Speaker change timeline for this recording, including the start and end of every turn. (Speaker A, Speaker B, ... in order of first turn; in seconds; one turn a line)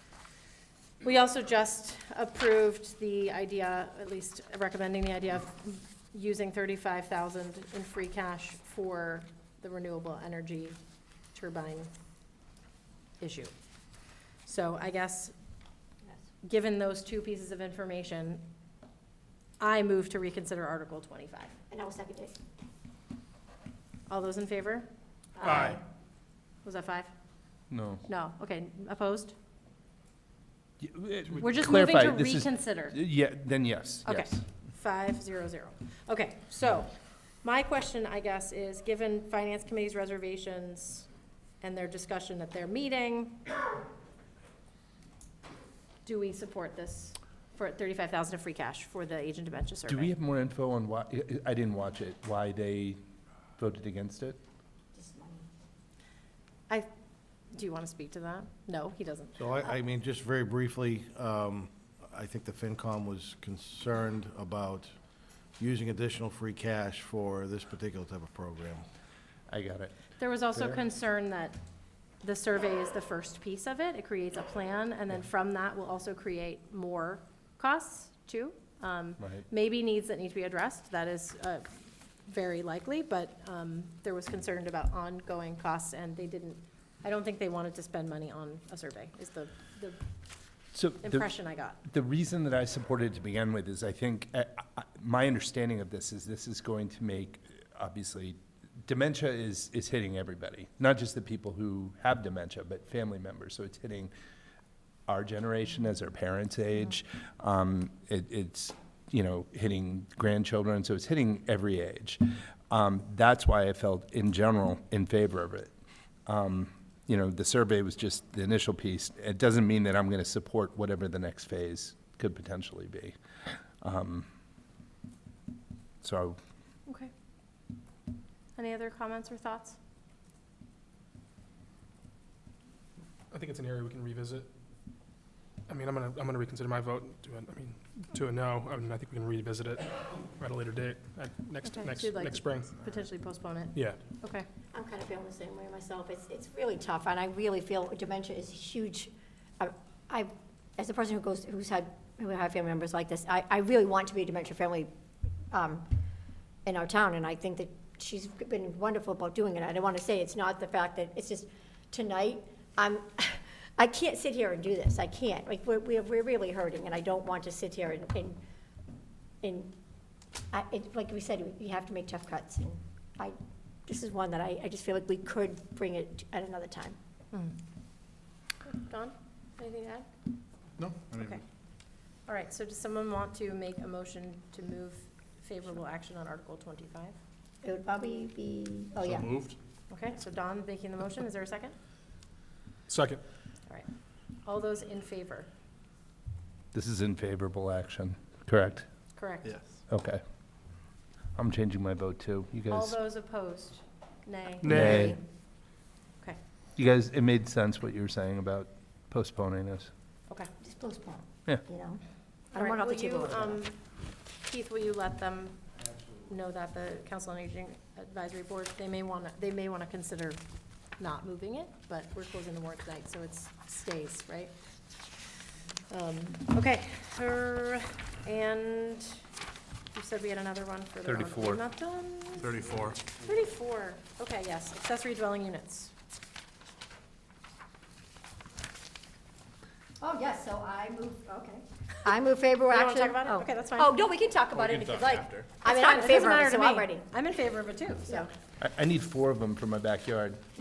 Speaker A: 1.0-10.8
Speaker A: 11.3-11.9
Speaker A: 13.2-13.5
Speaker A: 14.4-15.3
Speaker A: 16.4-18.4
Speaker A: 19.6-21.5
Speaker B: 21.7-22.4
Speaker A: 24.1-24.9
Speaker B: 25.4-25.8
Speaker A: 25.4-25.8
Speaker A: 26.6-27.1
Speaker C: 27.7-28.0
Speaker A: 28.1-29.3
Speaker C: 30.8-34.4
Speaker A: 31.3-33.0
Speaker A: 34.0-36.9
Speaker A: 37.4-41.1
Speaker A: 41.6-43.5
Speaker A: 46.0-50.1
Speaker C: 49.9-53.0
Speaker C: 53.6-54.4
Speaker B: 55.0-55.5
Speaker A: 57.5-59.4
Speaker D: 59.4-65.0
Speaker D: 65.6-68.9
Speaker C: 69.5-70.8
Speaker A: 70.2-71.6
Speaker A: 72.2-81.7
Speaker C: 79.2-79.5
Speaker A: 82.3-90.0
Speaker C: 90.7-91.3
Speaker A: 91.0-91.8
Speaker C: 91.8-104.1
Speaker C: 105.1-115.7
Speaker C: 116.3-123.2
Speaker C: 123.8-124.3
Speaker C: 126.0-126.4
Speaker A: 128.6-129.8
Speaker E: 133.3-134.5
Speaker E: 135.7-142.8
Speaker A: 141.7-144.5
Speaker E: 143.7-144.0
Speaker B: 144.7-154.9
Speaker B: 155.5-155.9
Speaker B: 156.7-168.4
Speaker B: 169.4-169.7
Speaker B: 170.5-173.3
Speaker B: 173.9-177.0
Speaker A: 178.7-180.1
Speaker D: 180.8-181.4
Speaker A: 181.2-181.4
Speaker A: 182.3-187.2
Speaker B: 187.6-189.3
Speaker D: 189.1-189.5
Speaker A: 189.9-191.8
Speaker E: 192.9-193.2
Speaker A: 194.4-195.5
Speaker C: 196.7-198.9
Speaker A: 199.2-199.6
Speaker C: 199.9-200.2
Speaker C: 201.4-203.0
Speaker A: 202.7-205.1
Speaker E: 204.6-205.1
Speaker C: 204.6-205.2
Speaker B: 204.7-205.2
Speaker C: 206.8-209.9
Speaker B: 210.6-212.0
Speaker A: 212.5-213.8
Speaker B: 212.5-213.6
Speaker A: 214.4-215.6
Speaker A: 216.2-220.4
Speaker A: 221.0-224.5
Speaker A: 225.9-229.2
Speaker A: 229.9-235.9
Speaker C: 231.1-231.6
Speaker D: 232.4-233.0
Speaker B: 240.0-247.1
Speaker A: 242.7-243.9
Speaker A: 245.7-248.3
Speaker C: 248.6-250.4